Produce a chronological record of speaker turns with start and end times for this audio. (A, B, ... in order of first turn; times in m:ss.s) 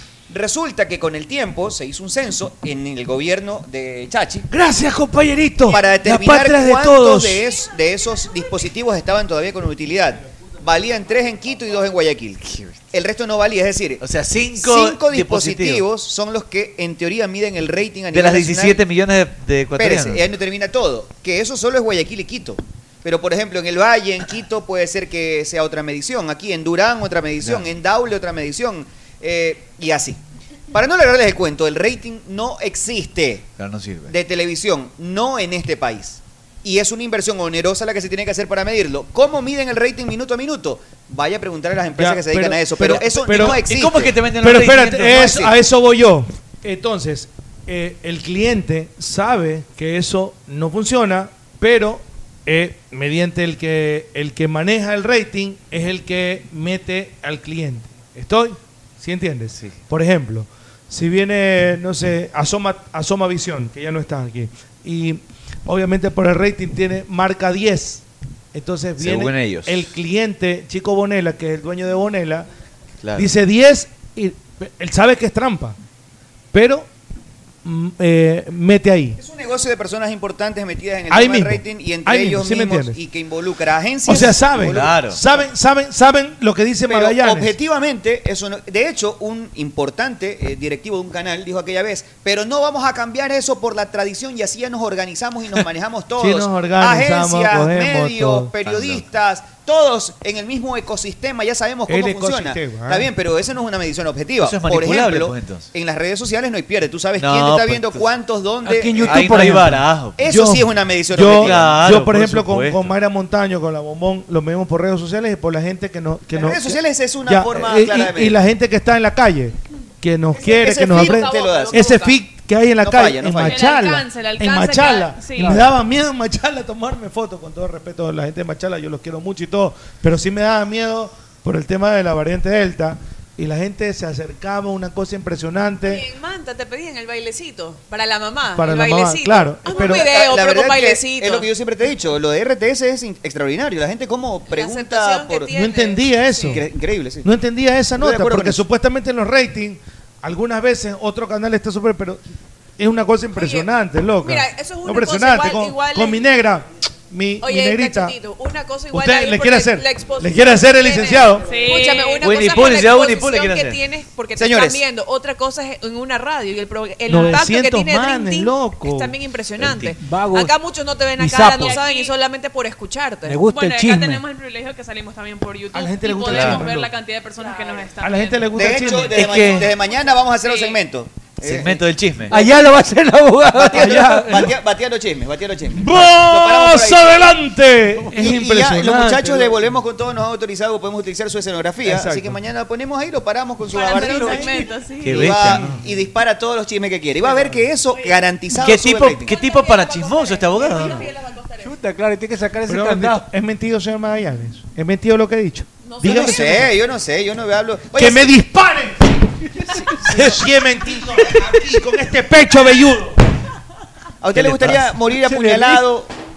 0:00.3-0:04.5 A
0:04.5-0:07.4 B
0:05.7-0:14.0 A
0:14.0-0:15.8 C
0:14.6-0:18.8 A
0:18.1-0:20.2 C
0:19.8-0:30.2 A
0:27.4-0:27.7 C
0:30.7-0:33.5 A
0:33.6-0:34.1 C
0:34.1-0:44.1 A
0:41.9-0:43.9 B
0:43.3-0:45.4 C
0:44.4-1:12.5 B
0:45.0-0:45.5 A
1:09.0-1:09.8 C
1:13.0-1:13.3 C
1:13.1-1:15.8 B
1:16.5-1:16.9 B
1:17.6-1:19.2 B
1:19.2-1:25.0 A
1:21.1-1:23.0 B
1:24.0-1:27.5 B
1:24.7-1:25.2 C
1:26.9-1:49.6 A
1:36.2-1:38.5 B
1:38.6-1:39.0 C
1:41.9-1:43.1 B
1:44.4-1:45.7 C
1:47.2-1:48.1 C
1:48.6-1:49.8 D
1:49.0-1:50.2 C
1:50.2-1:51.7 A
1:50.2-2:16.0 B
1:51.2-1:52.9 C
1:56.3-1:58.4 A
2:00.4-2:02.0 A
2:00.8-2:02.2 E
2:02.8-2:03.7 A
2:03.5-2:05.6 F
2:15.8-2:21.5 E
2:18.6-2:20.1 B
2:19.7-2:25.6 A
2:24.5-2:26.6 E
2:25.5-2:26.7 B
2:26.4-2:27.3 A
2:27.2-2:32.2 B
2:28.0-2:28.6 A
2:32.8-2:38.1 B
2:33.4-2:33.7 E
2:34.2-2:36.2 E
2:37.4-2:53.4 E
2:38.9-2:41.4 B
2:41.4-2:42.3 F
2:42.2-2:43.8 C
2:44.4-2:44.8 A
2:47.1-2:49.2 B
2:49.6-2:49.9 C
2:50.0-2:50.5 D
2:51.2-2:51.8 D
2:51.5-2:52.1 F
2:53.2-2:54.2 D
2:53.4-2:58.6 F
2:55.7-2:56.9 B
2:56.2-2:56.7 C
2:58.0-2:59.7 B
2:58.5-3:01.8 A
3:01.4-3:02.4 C
3:02.3-3:04.5 D
3:03.5-3:07.3 A
3:03.7-3:04.6 B
3:05.7-3:09.8 B
3:08.1-3:14.5 A
3:11.8-3:12.4 B
3:13.7-3:15.3 E
3:13.9-3:14.7 D
3:15.0-3:15.7 C
3:15.0-3:19.3 A
3:15.4-3:15.8 D
3:17.2-3:17.5 D
3:18.5-3:21.1 C
3:19.3-3:21.7 E
3:19.6-3:21.1 F
3:21.6-3:23.3 D
3:22.7-3:26.8 B
3:25.8-3:26.2 E
3:26.0-3:28.3 A
3:27.9-3:29.2 B
3:29.8-3:33.2 B
3:30.1-3:30.4 C
3:34.2-3:36.1 A
3:34.3-3:35.0 C
3:35.2-3:35.8 D